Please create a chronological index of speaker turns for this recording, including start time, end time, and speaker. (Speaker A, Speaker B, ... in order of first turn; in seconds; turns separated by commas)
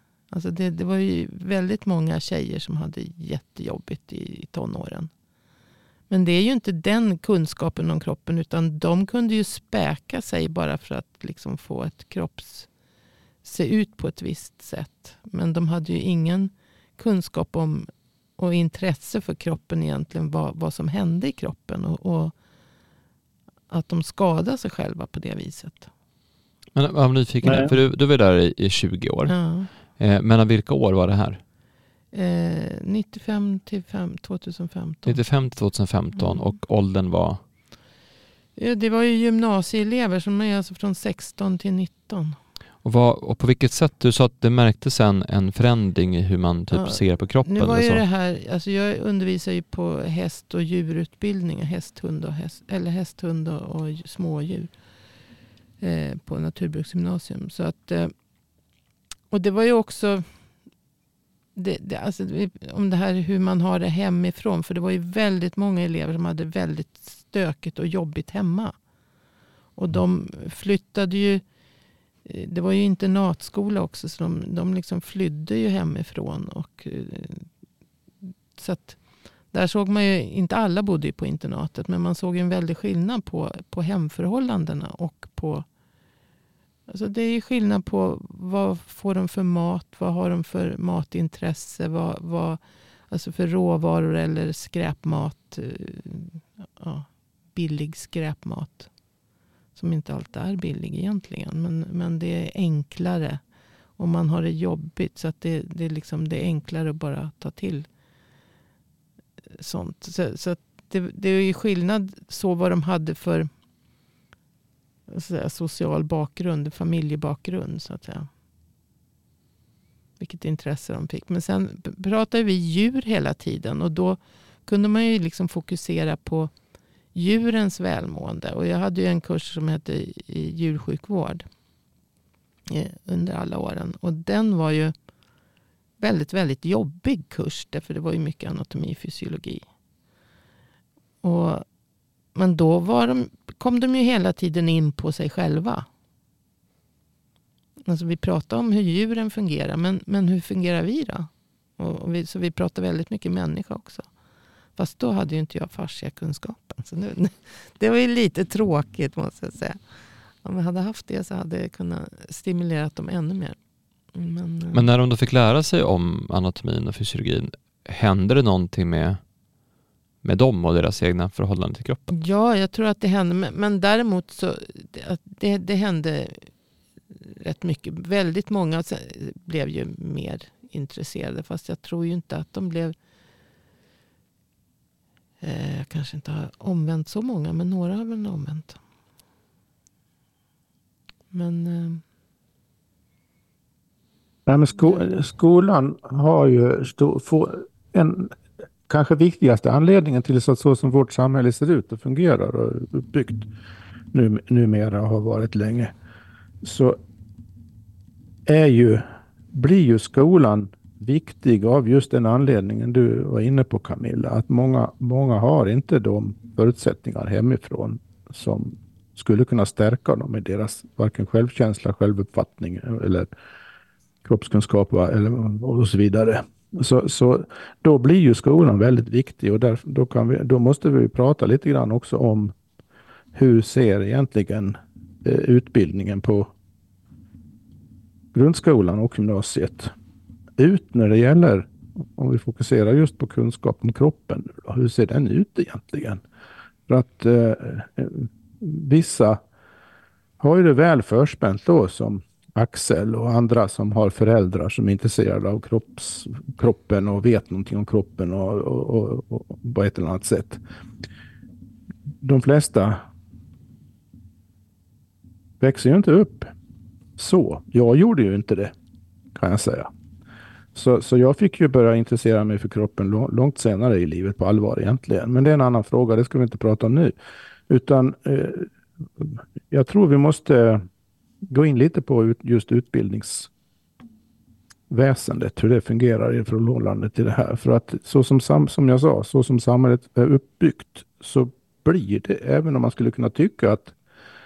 Speaker A: 0.3-5.1, Speaker A: 6.1-12.7, Speaker A: 13.4-22.4, Speaker A: 23.7-25.9, Speaker B: 26.8-31.4, Speaker C: 27.4-27.7, Speaker A: 29.3-29.7, Speaker A: 32.1-35.2, Speaker B: 35.1-37.4, Speaker A: 36.2-36.5, Speaker A: 38.6-42.4, Speaker B: 42.8-48.0, Speaker A: 46.7-54.7, Speaker A: 55.8-58.1, Speaker A: 59.3-60.3, Speaker A: 61.5-68.8, Speaker A: 69.8-71.4, Speaker A: 72.2-77.5, Speaker A: 78.6-79.0, Speaker A: 79.5-85.7, Speaker A: 86.9-98.9, Speaker A: 99.8-103.4, Speaker A: 104.0-107.9, Speaker A: 109.5-113.5, Speaker A: 115.1-118.3, Speaker A: 120.2-126.5, Speaker A: 127.1-131.5, Speaker A: 132.7-134.9, Speaker A: 136.0-139.7, Speaker A: 141.2-141.7, Speaker A: 142.3-145.9, Speaker A: 147.9-154.1, Speaker A: 154.8-159.8, Speaker A: 160.4-163.6, Speaker A: 164.1-164.9, Speaker B: 164.7-169.2, Speaker B: 170.2-172.0, Speaker A: 172.1-176.5, Speaker A: 177.2-183.0, Speaker A: 185.4-188.8, Speaker A: 191.3-192.0, Speaker C: 194.5-198.4, Speaker C: 198.9-203.5, Speaker C: 204.1-205.9, Speaker C: 206.6-207.0, Speaker C: 208.5-223.3, Speaker C: 224.2-232.5, Speaker C: 233.3-236.5, Speaker C: 238.3-239.9, Speaker C: 240.6-246.2, Speaker C: 246.9-249.4, Speaker C: 250.4-260.6, Speaker C: 262.2-263.0, Speaker C: 265.6-266.5, Speaker C: 267.2-268.7, Speaker C: 269.4-269.9, Speaker C: 270.8-277.1, Speaker C: 277.7-280.8, Speaker C: 281.5-283.5, Speaker C: 284.9-293.9